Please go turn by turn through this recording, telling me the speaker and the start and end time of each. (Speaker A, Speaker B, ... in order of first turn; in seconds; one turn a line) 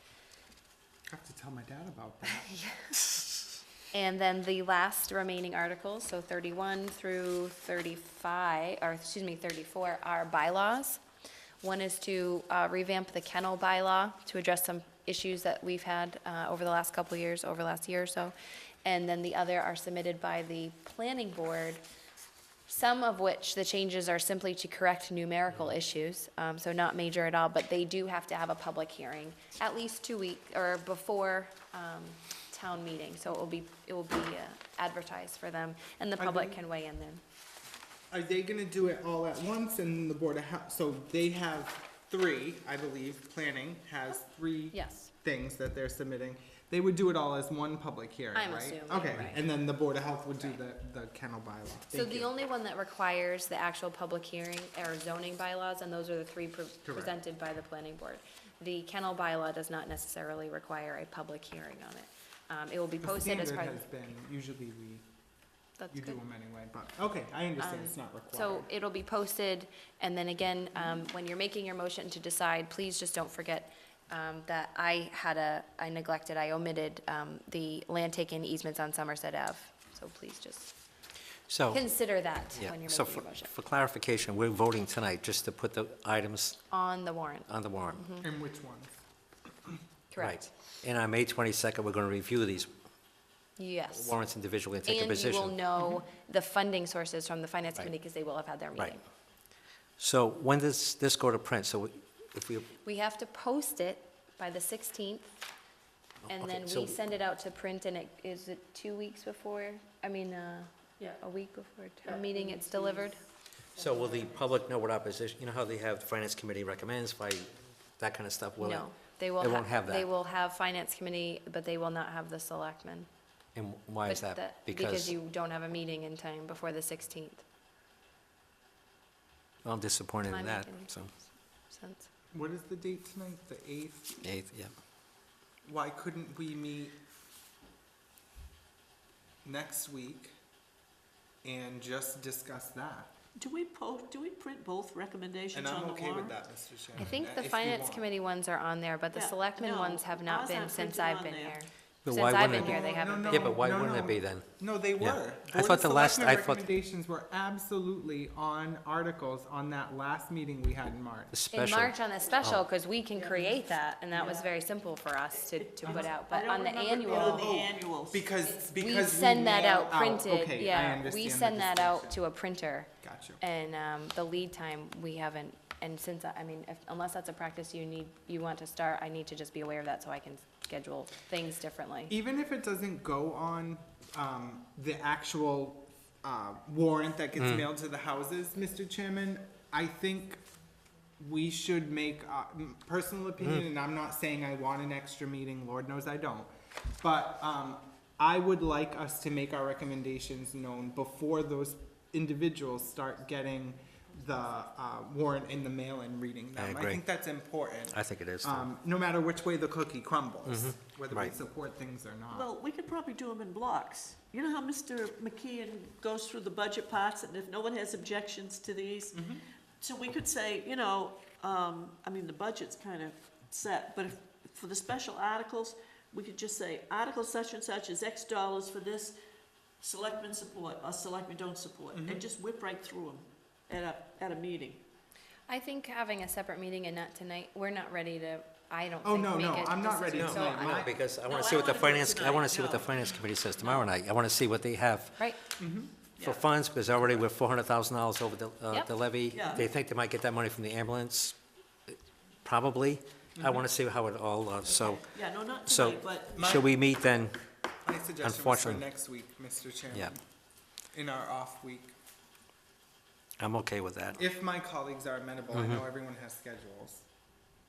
Speaker A: 1.1-2.5
Speaker B: 2.4-3.0
Speaker B: 3.9-11.0
Speaker B: 11.6-18.3
Speaker B: 18.8-21.8
Speaker B: 22.7-37.2
Speaker A: 36.2-36.6
Speaker A: 38.1-52.3
Speaker B: 44.7-45.1
Speaker B: 48.3-49.4
Speaker B: 51.9-63.8
Speaker A: 56.8-57.1
Speaker A: 63.0-65.0
Speaker B: 65.8-66.2
Speaker A: 65.9-68.7
Speaker B: 67.6-80.7
Speaker C: 81.5-81.8
Speaker B: 81.7-83.5
Speaker C: 82.5-86.6
Speaker B: 86.7-88.3
Speaker C: 87.5-88.0
Speaker A: 88.2-89.0
Speaker B: 90.1-90.5
Speaker C: 90.2-92.7
Speaker B: 93.6-94.2
Speaker C: 94.0-95.6
Speaker B: 94.8-99.0
Speaker C: 100.0-102.7
Speaker B: 102.8-105.3
Speaker C: 106.2-107.0
Speaker B: 106.3-113.2
Speaker C: 113.8-118.8
Speaker B: 118.6-123.1
Speaker C: 119.4-120.1
Speaker C: 123.5-125.1
Speaker B: 124.0-127.4
Speaker C: 129.6-131.1
Speaker B: 130.3-132.1
Speaker A: 132.3-134.2
Speaker C: 134.2-134.7
Speaker A: 135.7-137.0
Speaker A: 139.4-140.3
Speaker A: 141.4-143.1
Speaker D: 143.4-146.4
Speaker A: 145.5-148.1
Speaker B: 147.0-153.6
Speaker D: 149.1-151.6
Speaker C: 152.0-154.4
Speaker A: 152.4-161.3
Speaker C: 155.0-156.7
Speaker C: 161.3-162.6
Speaker B: 161.5-167.5
Speaker D: 163.1-164.4
Speaker D: 165.5-168.3
Speaker A: 167.1-172.2
Speaker B: 168.4-182.1
Speaker A: 173.0-173.4
Speaker A: 182.1-190.4
Speaker C: 187.4-187.6
Speaker A: 191.2-212.5
Speaker C: 206.6-207.0
Speaker C: 207.9-208.7
Speaker C: 210.4-211.3
Speaker D: 212.3-219.2
Speaker A: 219.1-219.4
Speaker D: 219.8-229.2
Speaker D: 229.8-234.8
Speaker A: 231.9-232.2
Speaker B: 235.5-240.8
Speaker A: 239.0-241.0
Speaker C: 240.1-245.2
Speaker D: 241.2-243.9
Speaker A: 245.6-245.9
Speaker D: 246.2-246.4
Speaker C: 246.2-251.4
Speaker D: 249.3-249.7
Speaker C: 251.9-255.1
Speaker A: 253.4-253.6
Speaker D: 255.0-256.4
Speaker C: 255.7-257.4
Speaker A: 256.4-256.9
Speaker A: 257.8-260.2
Speaker C: 258.2-258.8
Speaker A: 260.9-261.9
Speaker C: 263.4-264.2
Speaker A: 264.1-267.1
Speaker C: 265.5-265.8